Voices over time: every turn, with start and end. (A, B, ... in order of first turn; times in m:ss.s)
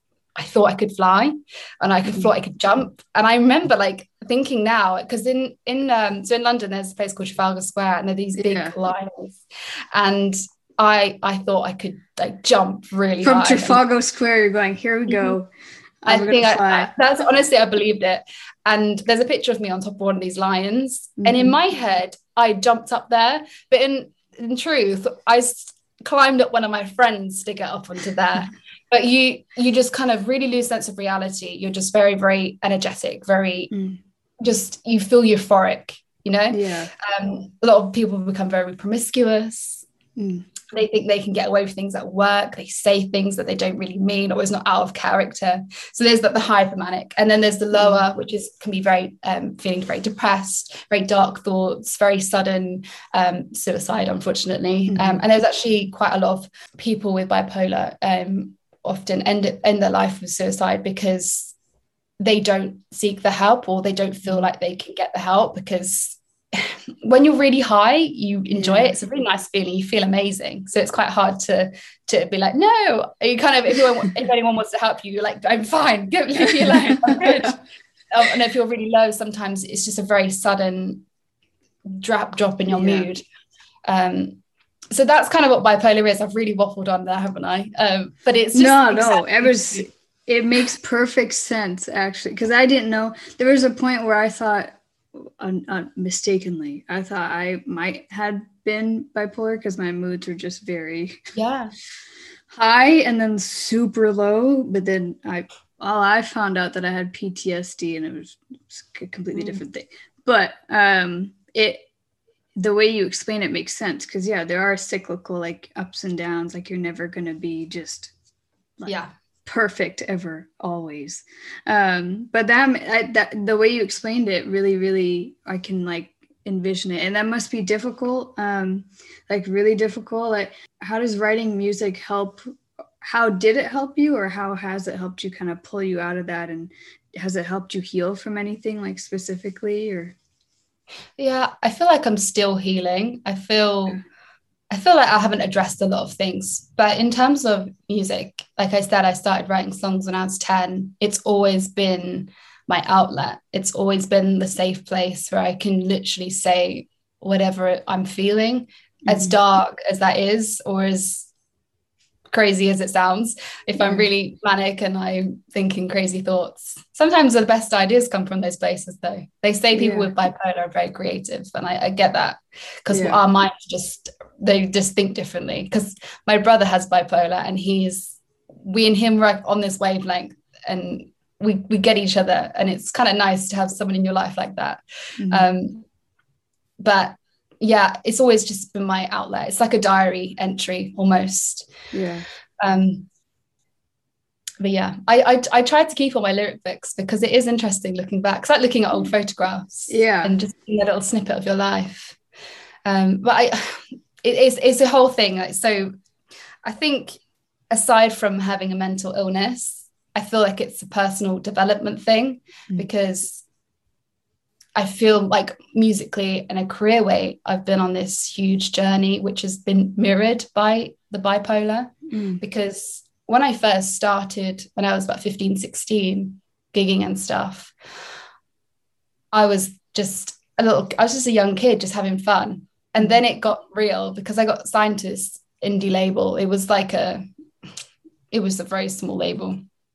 0:00.4-0:09.4 A
0:08.4-0:08.7 B
0:09.9-0:13.8 A
0:13.2-0:15.5 B
0:16.0-0:16.9 B
0:16.1-0:33.7 A
0:21.2-0:21.5 B
0:33.7-0:34.0 B
0:34.4-0:39.9 A
0:36.5-0:36.9 B
0:40.2-0:40.4 B
0:40.7-1:01.5 A
0:54.9-0:55.2 B
1:02.2-1:21.0 A
1:08.6-1:08.9 B
1:21.9-1:23.2 A
1:22.7-1:23.1 B
1:23.9-1:24.4 A
1:24.9-1:29.9 A
1:28.5-1:41.3 B
1:41.3-1:41.7 A
1:42.5-1:51.9 B
1:52.6-1:58.1 B
1:58.8-2:12.4 B
1:58.8-1:59.1 A
2:13.0-2:20.2 B
2:21.2-2:24.0 A
2:24.7-2:41.3 A
2:39.1-2:39.4 B
2:42.3-3:05.8 A
2:43.8-2:44.0 B
2:49.7-2:50.1 B
2:52.9-2:53.2 B
3:05.2-3:05.5 B
3:06.8-3:11.7 A
3:11.9-3:12.3 B
3:12.6-3:13.1 A
3:14.6-3:22.2 A
3:19.9-3:20.3 B
3:22.8-3:25.9 A
3:26.6-3:27.2 A
3:27.7-3:33.4 A
3:34.7-3:47.7 A
3:42.1-3:42.4 B
3:49.3-3:57.2 A
3:58.3-3:59.6 A